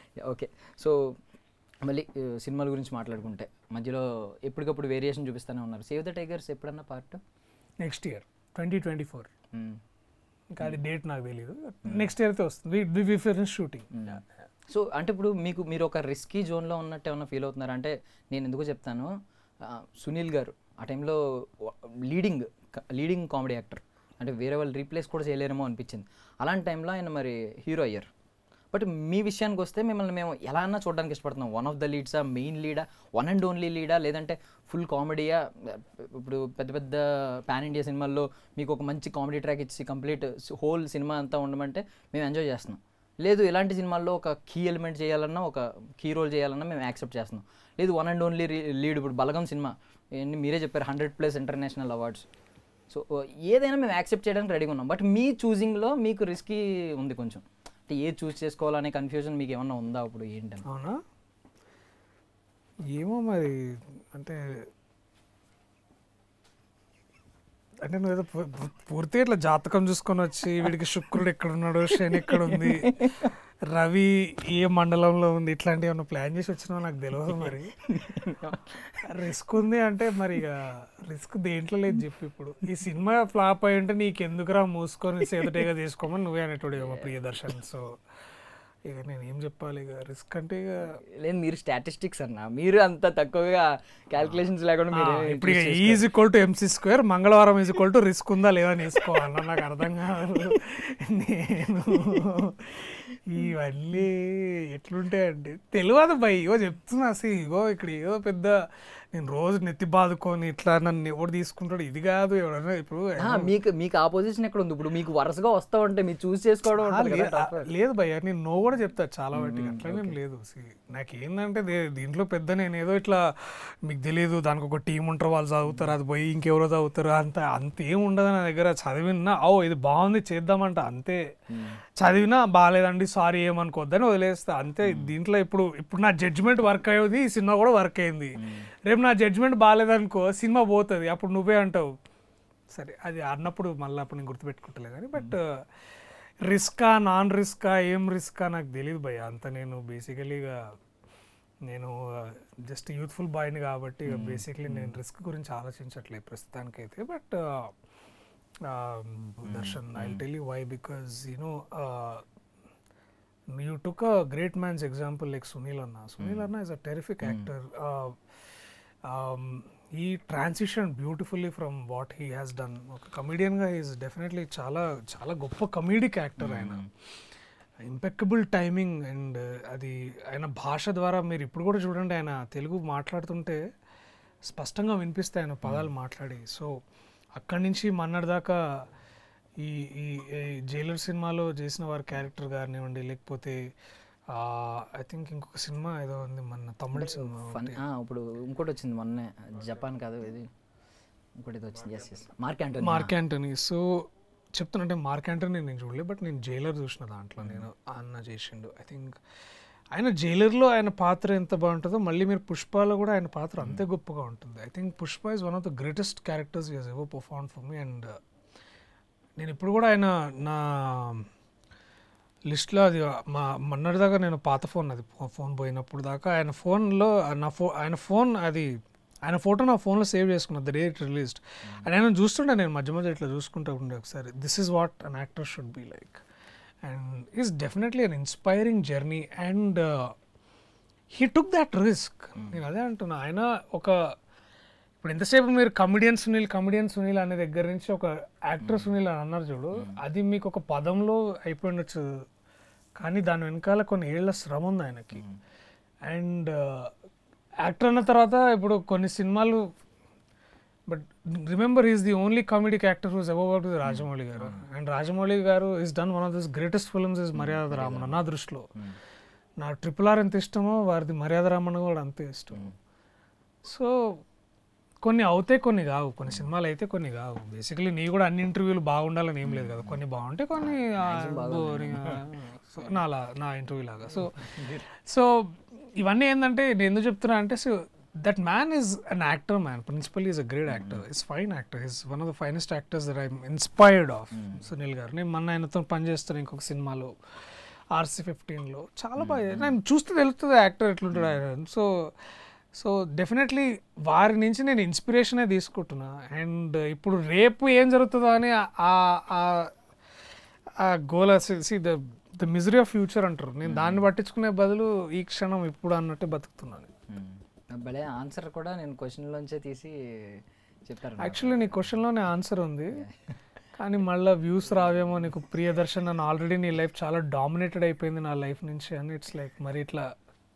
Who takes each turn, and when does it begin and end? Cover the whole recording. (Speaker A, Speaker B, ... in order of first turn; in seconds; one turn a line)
Speaker A: 0.2-1.1
Speaker A: 1.8-7.2
Speaker B: 7.8-9.3
Speaker A: 9.5-9.8
Speaker B: 10.5-14.2
Speaker A: 11.9-12.1
Speaker A: 13.9-14.2
Speaker A: 14.7-19.1
Speaker A: 19.6-28.1
Speaker A: 28.7-52.3
Speaker A: 52.9-60.7
Speaker B: 60.7-61.0
Speaker B: 62.9-64.4
Speaker B: 67.8-77.7
Speaker A: 71.9-73.3
Speaker A: 77.3-79.0
Speaker B: 79.0-87.9
Speaker A: 86.8-87.5
Speaker B: 88.9-90.9
Speaker A: 91.2-96.1
Speaker B: 94.9-108.6
Speaker B: 109.1-113.5
Speaker A: 113.2-117.7
Speaker B: 116.7-131.2
Speaker A: 119.3-120.2
Speaker A: 125.7-125.9
Speaker A: 131.5-131.8
Speaker B: 132.0-141.9
Speaker A: 134.8-135.2
Speaker A: 138.4-138.7
Speaker B: 142.7-145.4
Speaker B: 146.5-150.6
Speaker B: 151.7-157.7
Speaker A: 154.1-155.0
Speaker B: 158.7-162.2
Speaker A: 159.5-160.2
Speaker B: 163.5-168.2
Speaker A: 166.2-166.5
Speaker A: 167.2-167.5
Speaker B: 169.1-176.8
Speaker A: 176.4-176.9
Speaker B: 177.8-183.6
Speaker B: 184.5-186.7
Speaker A: 185.6-185.9
Speaker B: 187.4-188.8
Speaker B: 189.6-193.6
Speaker B: 194.3-197.8
Speaker A: 196.9-200.5
Speaker A: 201.4-203.2
Speaker B: 202.8-203.9
Speaker B: 204.6-209.2
Speaker A: 207.4-207.7
Speaker B: 209.9-218.1
Speaker A: 213.6-213.9
Speaker B: 219.4-221.3
Speaker B: 222.5-228.7
Speaker B: 229.3-236.2
Speaker B: 236.9-240.1
Speaker B: 241.1-244.0
Speaker B: 245.0-252.1
Speaker A: 248.6-248.9
Speaker A: 249.7-250.0
Speaker B: 253.0-255.2
Speaker B: 256.1-256.9
Speaker B: 257.6-259.6
Speaker B: 260.9-268.7
Speaker A: 263.8-264.6
Speaker A: 267.3-269.0
Speaker B: 269.6-272.7
Speaker B: 273.7-274.2
Speaker B: 275.0-284.5
Speaker A: 279.4-280.0
Speaker A: 280.5-282.3
Speaker A: 284.1-284.9
Speaker B: 285.1-297.1
Speaker A: 290.7-291.0
Speaker A: 294.3-294.7
Speaker B: 297.9-302.1
Speaker A: 299.2-299.8
Speaker A: 301.1-301.4
Speaker B: 302.8-309.7
Speaker B: 310.8-316.9
Speaker A: 313.6-314.1
Speaker A: 317.1-321.9
Speaker B: 321.2-323.0
Speaker B: 323.8-330.1